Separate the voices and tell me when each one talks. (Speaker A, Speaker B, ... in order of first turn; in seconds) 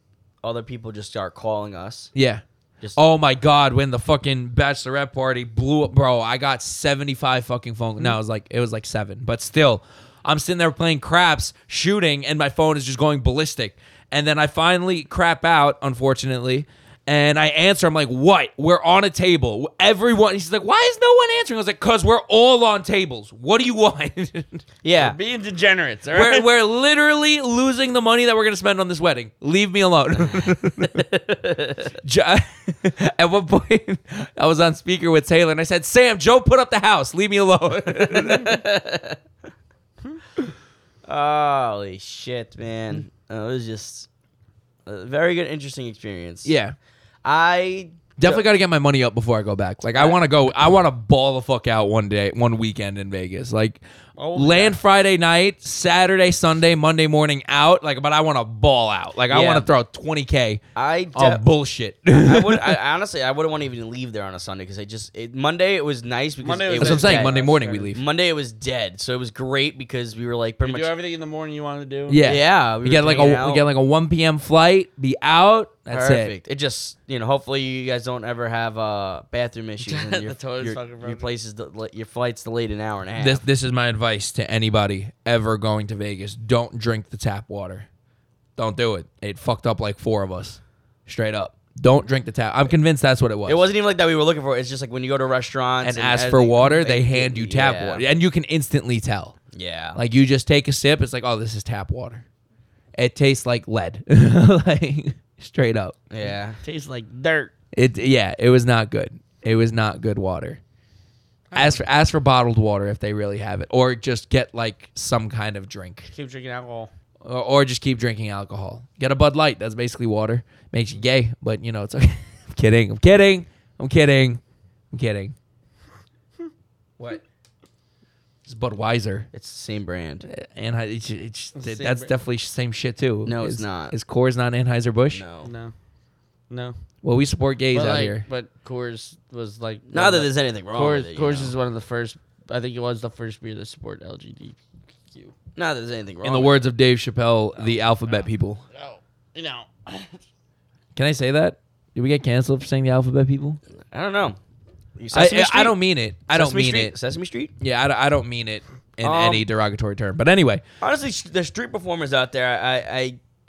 Speaker A: 0.4-2.1, 24.8-25.2, 30.9-31.9, 38.1-39.2, 41.1-44.1, 44.9-46.5, 47.2-48.4, 54.2-54.8, 59.3-59.7, 60.8-61.4, 62.2-67.4, 67.9-70.9, 72.2-73.6, 75.9-83.4, 93.5-98.0, 99.5-100.0, 106.1-106.6, 129.3-130.3, 133.2-133.9, 135.1-135.5, 139.9-141.5, 145.6-146.6, 153.9-154.4, 155.0-155.8, 156.3-157.5, 159.0-159.4, 160.8-163.2
Speaker B: 2.1-2.4, 3.0-24.6, 26.1-31.1, 32.0-38.6, 46.5-46.8, 48.2-53.8, 54.3-60.6, 61.1-62.8, 66.8-68.0, 72.1-76.3, 83.2-87.9, 88.6-93.7, 95.8-99.4, 100.0-102.2, 103.0-106.0, 107.7-110.6, 111.5-116.1, 117.2-124.4, 124.9-125.3, 128.4-129.3, 130.3-135.2, 137.0-138.2, 146.2-148.6, 150.9-153.6, 155.1-156.9, 157.6-160.6
Speaker C: 25.0-26.5, 66.4-67.9, 70.6-72.2, 79.8-81.3, 106.6-107.5, 111.5-111.8, 116.1-116.9, 131.6-132.1, 135.4-135.7, 137.7-144.6, 147.6-150.2